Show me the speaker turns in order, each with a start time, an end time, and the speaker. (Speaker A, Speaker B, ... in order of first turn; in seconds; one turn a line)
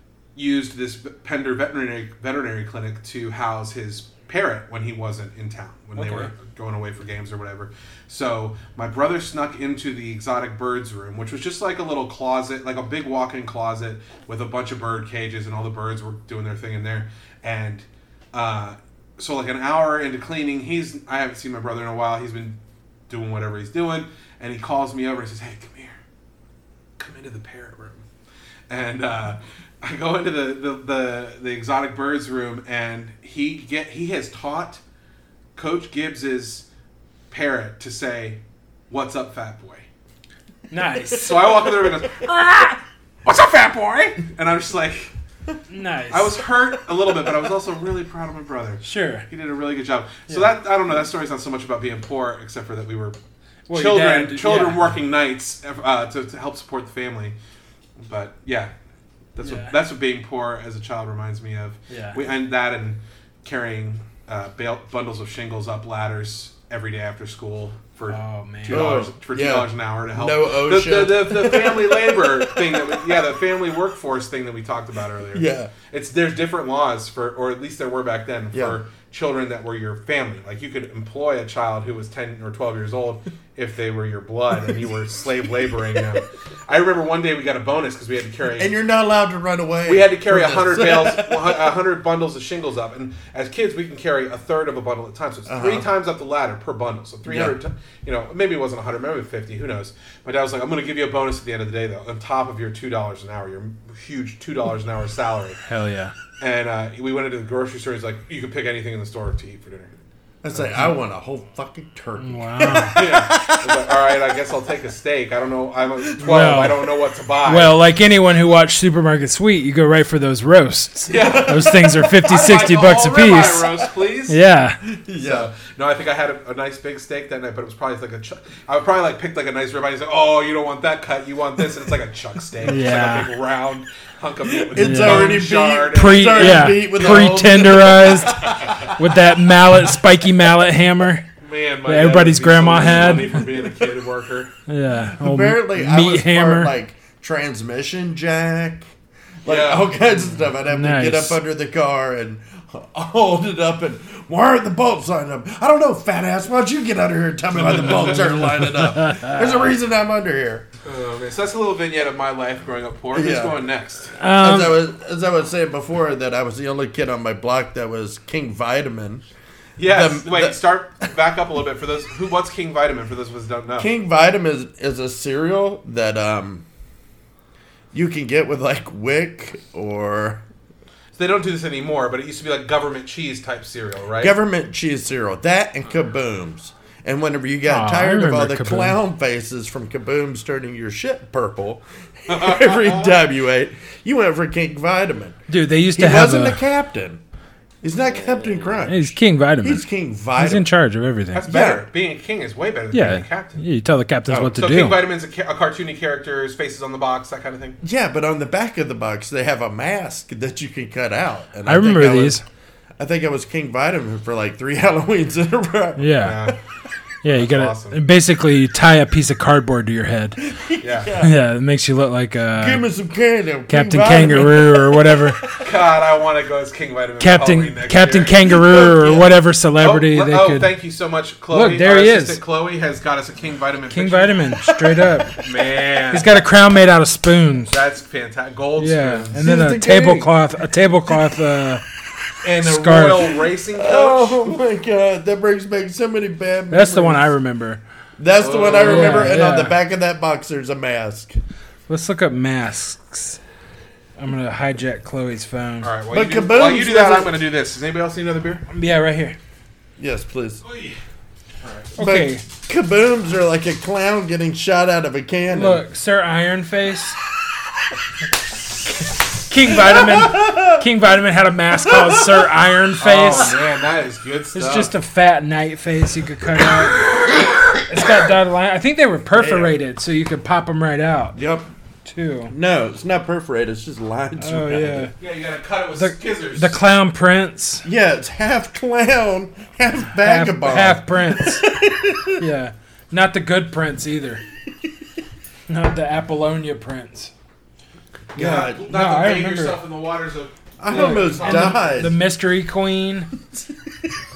Speaker A: 0.4-26.0
Speaker B: 6.0-6.3
Speaker A: 27.0-28.0
Speaker A: 28.7-34.8
Speaker A: 35.6-36.7
Speaker A: 37.3-39.9
Speaker B: 40.7-41.5
Speaker A: 41.2-45.1
Speaker B: 45.7-46.4
Speaker A: 46.1-53.2
Speaker B: 48.8-49.3
Speaker B: 53.7-54.9
Speaker A: 53.7-57.4
Speaker A: 58.0-58.7
Speaker A: 59.4-88.7
Speaker B: 59.4-59.8
Speaker B: 61.9-62.2
Speaker B: 68.1-69.0
Speaker C: 68.7-73.2
Speaker C: 75.3-75.7
Speaker C: 78.5-78.8
Speaker C: 88.6-91.7
Speaker A: 89.8-105.6
Speaker C: 95.5-95.9
Speaker C: 97.3-97.6
Speaker B: 105.7-106.1
Speaker A: 106.4-109.9
Speaker C: 110.4-113.9
Speaker B: 112.2-113.0
Speaker A: 112.7-117.8
Speaker B: 116.2-116.8
Speaker B: 117.5-123.7
Speaker A: 121.1-124.4
Speaker C: 121.2-122.3
Speaker B: 124.3-124.8
Speaker C: 124.9-125.5
Speaker A: 125.2-138.9
Speaker B: 132.7-133.3
Speaker C: 134.4-139.0
Speaker B: 134.8-141.3
Speaker A: 141.4-144.5
Speaker B: 141.9-143.4
Speaker C: 143.1-143.8
Speaker B: 144.7-146.7
Speaker C: 145.1-148.9
Speaker C: 149.4-160.7
Speaker A: 149.4-150.0
Speaker B: 150.7-151.4
Speaker A: 157.5-158.3
Speaker B: 158.0-159.6
Speaker A: 160.8-164.2
Speaker C: 163.1-163.6
Speaker B: 164.2-164.8
Speaker C: 164.3-169.2
Speaker A: 169.8-173.9
Speaker C: 169.8-170.6
Speaker C: 173.8-176.7
Speaker C: 177.9-180.4
Speaker A: 181.2-184.3
Speaker C: 184.2-195.4
Speaker B: 187.7-189.0
Speaker A: 192.3-193.2
Speaker B: 195.5-196.6
Speaker C: 195.9-197.2
Speaker C: 197.8-200.7
Speaker B: 198.8-199.8
Speaker B: 200.4-201.5
Speaker A: 201.3-203.6
Speaker C: 201.4-201.9
Speaker B: 202.9-205.0
Speaker A: 204.3-207.8
Speaker C: 207.8-212.4
Speaker B: 211.7-212.4
Speaker C: 213.0-216.6
Speaker B: 216.0-216.5
Speaker A: 216.2-216.6
Speaker B: 217.2-220.4
Speaker A: 217.3-218.0
Speaker C: 220.4-221.4
Speaker A: 220.8-221.1
Speaker B: 221.2-222.8
Speaker C: 222.6-225.8
Speaker B: 223.7-225.4
Speaker A: 225.6-228.5
Speaker B: 227.2-230.7
Speaker C: 228.4-229.4
Speaker A: 229.8-234.5
Speaker B: 231.5-232.4
Speaker B: 233.9-235.4
Speaker C: 234.6-235.2
Speaker A: 235.4-236.4
Speaker B: 236.1-237.8
Speaker A: 237.7-239.3
Speaker B: 238.8-241.8
Speaker C: 239.3-240.4
Speaker A: 242.4-244.5
Speaker B: 242.6-243.3
Speaker C: 243.7-247.3
Speaker B: 246.7-247.8
Speaker C: 248.2-251.4
Speaker A: 248.4-249.3
Speaker B: 248.8-249.8
Speaker B: 251.9-253.4
Speaker B: 254.2-255.9
Speaker A: 255.8-258.6
Speaker C: 256.1-257.4
Speaker B: 258.7-259.4
Speaker C: 260.0-260.6
Speaker A: 260.6-261.0
Speaker A: 261.6-261.9
Speaker B: 262.0-262.4
Speaker C: 262.0-265.8
Speaker B: 265.5-267.2
Speaker B: 269.0-273.6
Speaker C: 269.7-270.9
Speaker C: 271.9-272.3
Speaker A: 273.0-274.9
Speaker B: 274.5-277.1
Speaker B: 277.9-281.4
Speaker C: 279.3-279.7
Speaker C: 281.4-281.7
Speaker B: 282.1-282.5
Speaker C: 282.5-285.1
Speaker B: 284.4-285.1
Speaker A: 285.2-286.8
Speaker B: 286.0-287.9
Speaker C: 287.8-292.4
Speaker B: 290.2-291.7
Speaker B: 292.4-294.4
Speaker B: 295.7-297.3
Speaker C: 298.4-298.9
Speaker A: 298.4-302.0
Speaker B: 298.4-299.8
Speaker C: 300.8-302.2
Speaker B: 300.9-303.3
Speaker C: 303.5-303.9